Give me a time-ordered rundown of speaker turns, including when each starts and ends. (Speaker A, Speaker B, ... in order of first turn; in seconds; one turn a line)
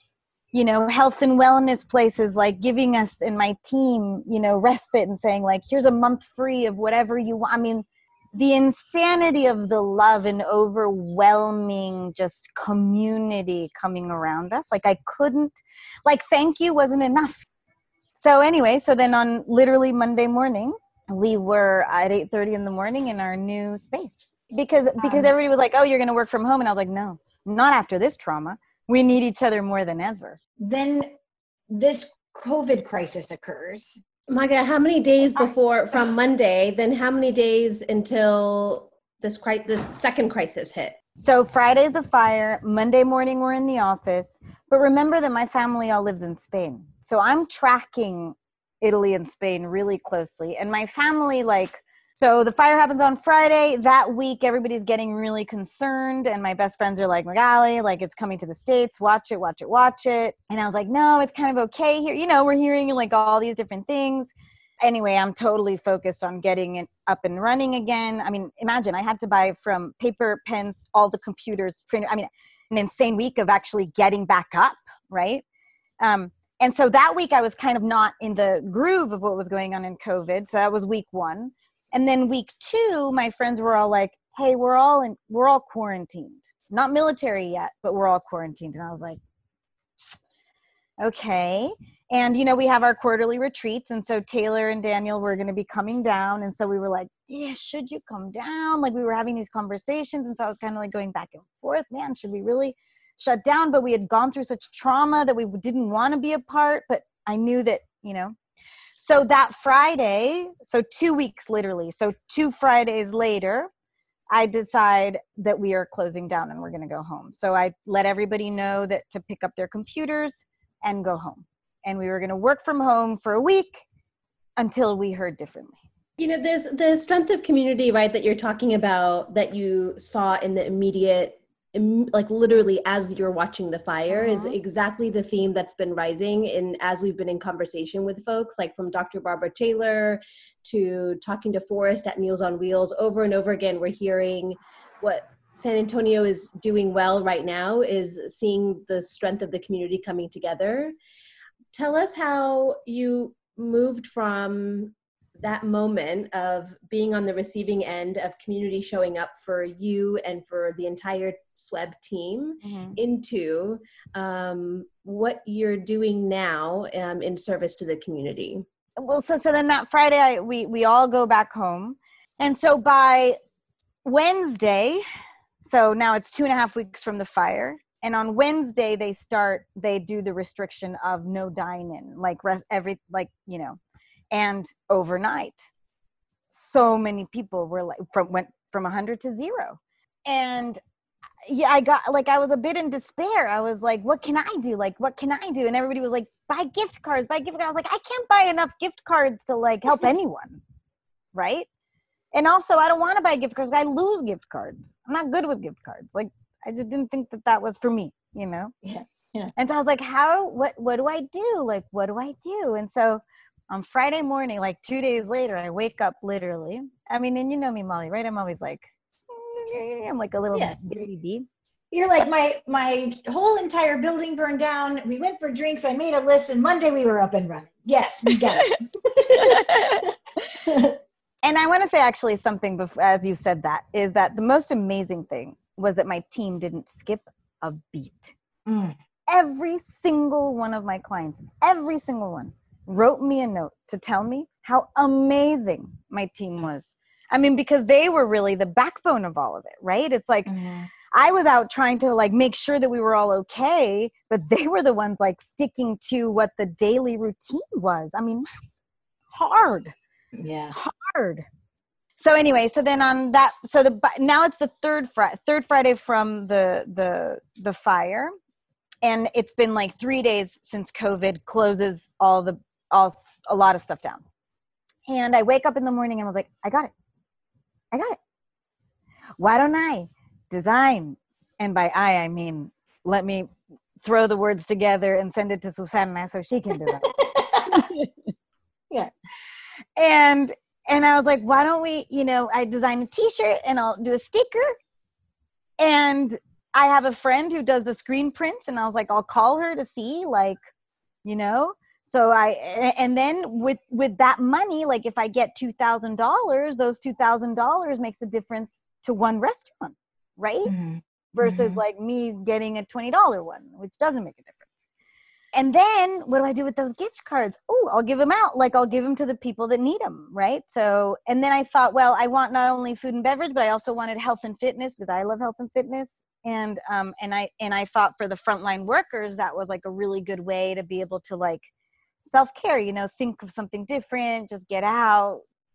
Speaker A: 0.5-17.4
Speaker A: 18.1-30.4
Speaker B: 25.0-25.3
Speaker B: 30.6-31.1
Speaker B: 31.7-34.0
Speaker C: 34.3-41.0
Speaker B: 35.4-36.1
Speaker A: 41.2-75.4
Speaker A: 76.0-89.2
Speaker A: 91.0-108.3
Speaker A: 109.0-113.7
Speaker A: 114.3-123.8
Speaker A: 124.6-125.8
Speaker C: 126.2-150.9
Speaker A: 134.1-134.6
Speaker C: 151.7-168.6
Speaker A: 162.6-163.0
Speaker A: 169.0-173.4
Speaker A: 174.1-175.0
Speaker A: 175.6-183.8
Speaker A: 184.3-185.7
Speaker A: 186.5-190.8
Speaker A: 191.4-200.6
Speaker A: 201.3-201.7
Speaker A: 202.3-208.7
Speaker B: 208.8-209.5
Speaker A: 209.6-221.5
Speaker B: 220.5-221.0
Speaker B: 221.9-230.1
Speaker A: 229.4-230.0
Speaker B: 230.6-231.0
Speaker A: 231.4-238.3
Speaker B: 238.7-239.0
Speaker A: 239.3-250.5
Speaker B: 250.5-250.9
Speaker A: 251.1-259.9
Speaker B: 260.4-260.8
Speaker A: 260.7-261.4
Speaker A: 262.2-268.3
Speaker A: 269.0-274.2
Speaker A: 275.1-276.9
Speaker A: 277.9-278.2
Speaker A: 279.4-283.5
Speaker A: 284.0-287.1
Speaker B: 286.8-287.9
Speaker A: 287.7-288.3
Speaker A: 290.0-294.8
Speaker A: 295.8-300.6
Speaker A: 301.2-310.7
Speaker B: 310.7-311.8
Speaker A: 311.3-314.7
Speaker A: 315.6-331.7
Speaker A: 332.2-335.4